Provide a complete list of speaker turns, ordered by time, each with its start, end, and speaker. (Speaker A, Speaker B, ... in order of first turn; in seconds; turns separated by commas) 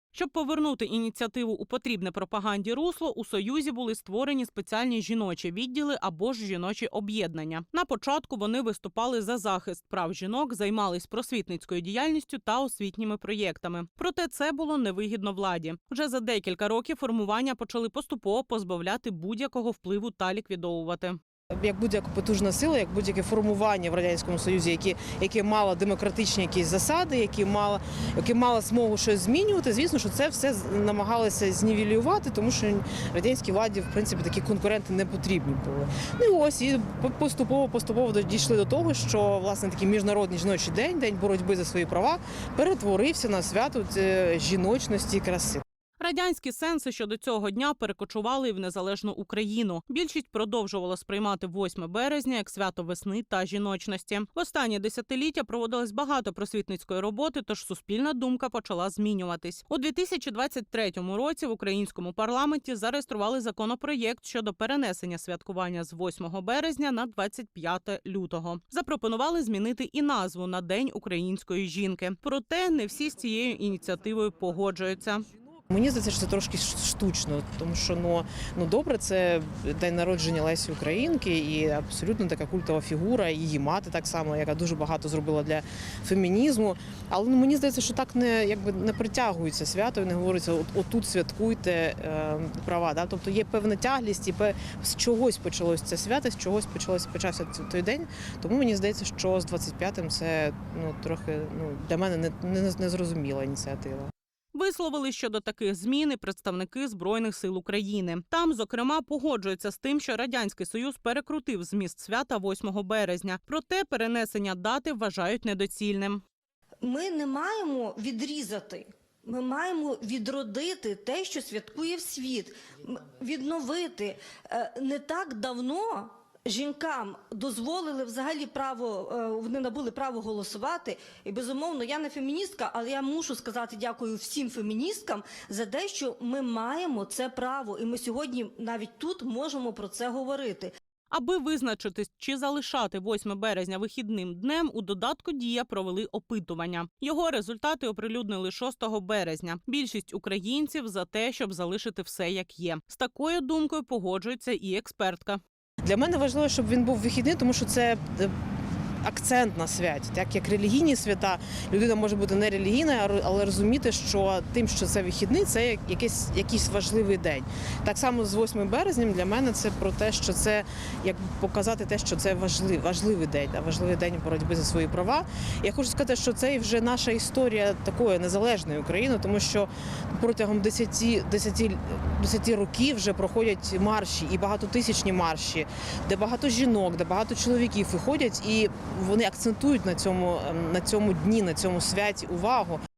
Speaker A: 0.1-21.2, Speaker B: 21.6-45.6, Speaker A: 46.0-75.3, Speaker B: 75.7-104.1, Speaker A: 104.5-116.2, Speaker C: 116.8-140.7, Speaker A: 141.1-155.4, Speaker B: 155.8-158.3, Speaker B: 159.0-192.8